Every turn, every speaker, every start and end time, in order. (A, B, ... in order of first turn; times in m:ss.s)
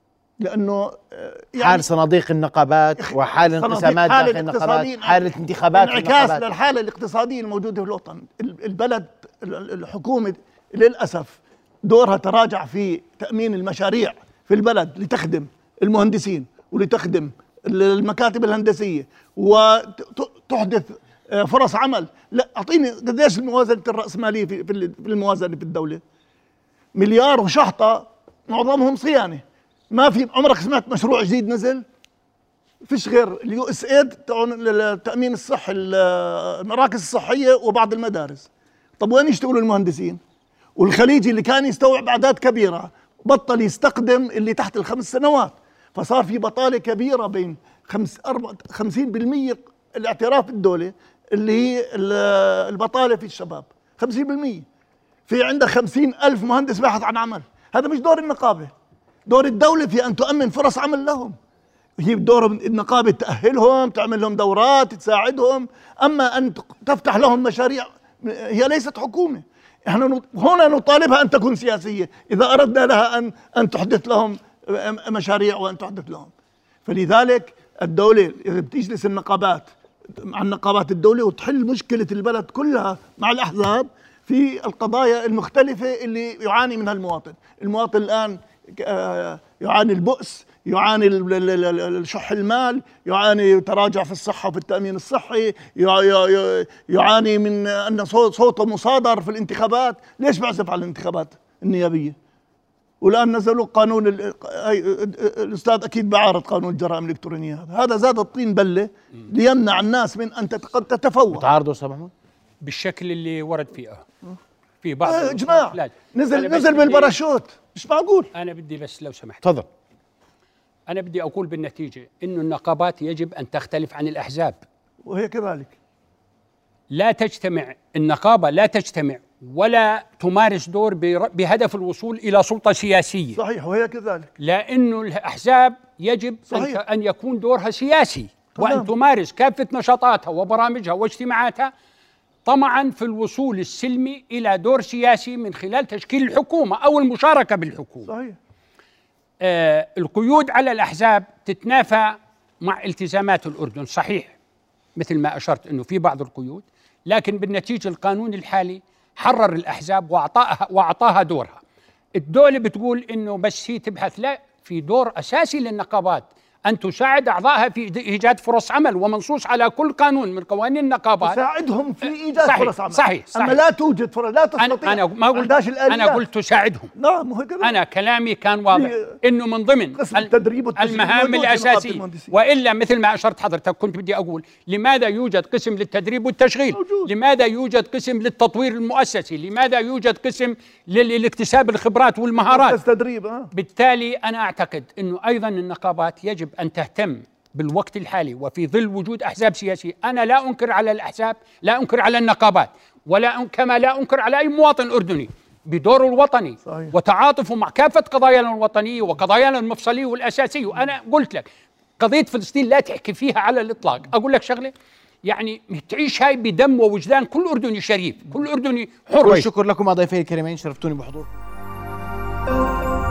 0:00.4-0:01.9 A
0:01.6-0:06.4 B
0:03.0-0:26.0 A
0:27.0-0:31.8 A
0:32.8-0:40.2 A
0:40.8-0:54.6 A
0:55.3-0:58.7 A
0:59.3-1:01.4 A
1:02.0-1:16.3 A
1:16.9-1:42.2 A
1:43.0-1:51.5 A
1:51.3-1:52.1 B
1:52.6-1:54.0 C
1:54.8-1:57.2 C
1:55.0-1:58.3 A
1:58.4-1:59.4 C
2:00.9-2:04.6 C
2:05.0-2:05.8 A
2:06.9-2:13.4 C
2:13.3-2:14.3 A
2:14.4-2:21.7 C
2:16.5-2:16.8 A
2:18.6-2:18.9 A
2:22.4-2:28.1 C
2:28.1-2:28.4 A
2:29.4-2:34.4 C
2:35.0-2:41.6 C
2:42.2-2:51.4 C
2:51.2-2:56.2 A
2:52.4-2:53.6 C
2:54.6-2:56.9 C
2:57.0-2:57.7 A
2:57.6-3:12.8 C
2:58.7-2:59.2 A
2:59.9-3:02.3 A
3:06.7-3:07.1 A
3:12.5-3:13.5 A
3:13.5-3:31.5 C
3:26.7-3:27.0 A
3:32.0-3:34.7 C
3:35.3-3:39.5 C
3:39.2-3:41.3 B